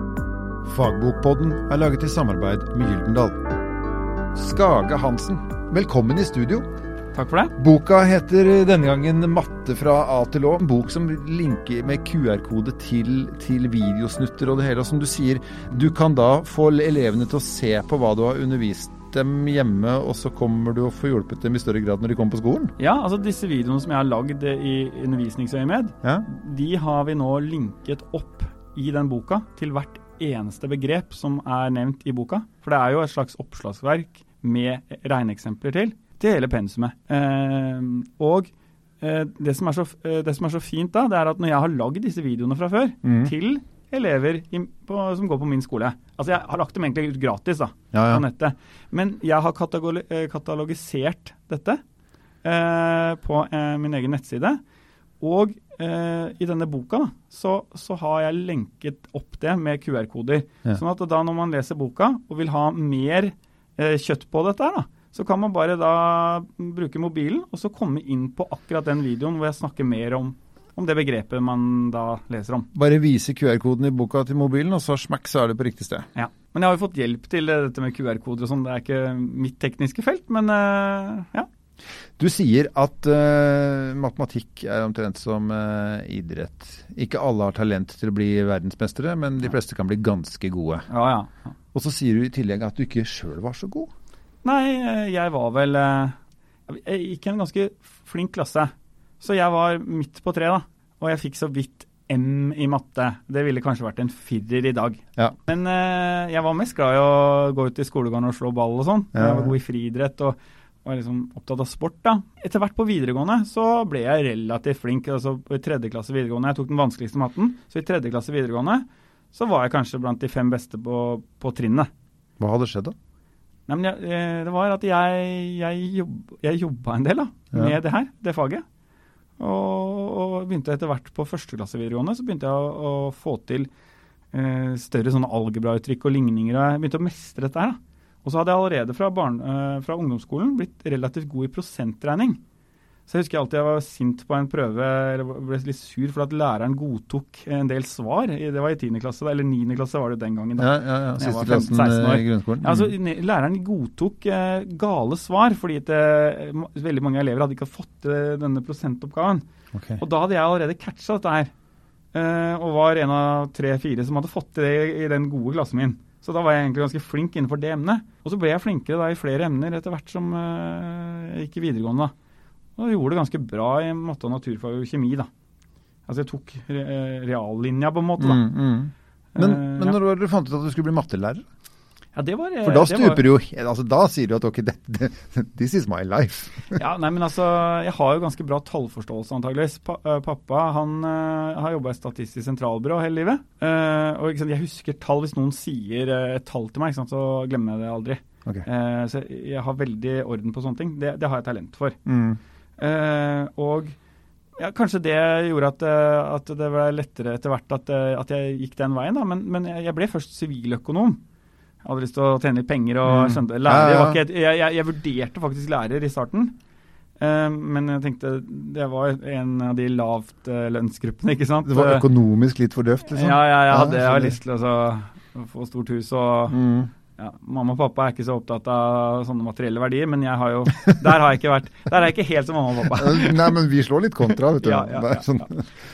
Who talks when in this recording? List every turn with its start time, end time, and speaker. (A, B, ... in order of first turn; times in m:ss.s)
0:00.6-0:03.4 A
0:04.3-0:06.6 A
0:07.1-0:07.5 B
0:07.6-0:22.7 A
0:22.8-0:51.8 B
0:43.0-0:43.3 A
0:47.9-0:48.2 A
0:52.4-0:54.6 B
0:55.2-1:12.7 B
1:12.7-1:16.1 A
1:16.1-1:21.5 B
1:22.2-1:30.9 A
1:30.9-1:31.5 B
1:31.7-1:33.9 A
1:34.4-1:36.1 B
1:36.7-2:01.9 B
1:49.1-1:49.5 A
2:02.4-2:02.9 A
2:03.7-2:08.6 B
2:09.4-2:13.7 B
2:14.3-2:22.4 B
2:23.1-2:39.4 B
2:30.6-2:32.9 A
2:39.7-2:40.0 A
2:40.0-2:41.5 B
2:42.1-2:52.1 B
2:52.8-2:55.3 B
2:56.1-2:58.5 B
2:58.2-3:01.4 A
2:59.3-3:00.0 B
3:02.1-3:03.2 B
3:02.6-3:06.8 A
3:06.7-3:22.0 B
3:22.0-3:22.4 A
3:22.8-3:23.9 B
3:24.6-3:31.2 B
3:31.8-3:36.5 B
3:33.0-3:34.2 A
3:37.2-3:42.0 B
3:41.6-3:44.4 A
3:43.1-3:46.6 B
3:46.5-3:46.9 A
3:47.2-3:53.5 B
3:52.9-3:55.6 A
3:54.6-3:55.5 B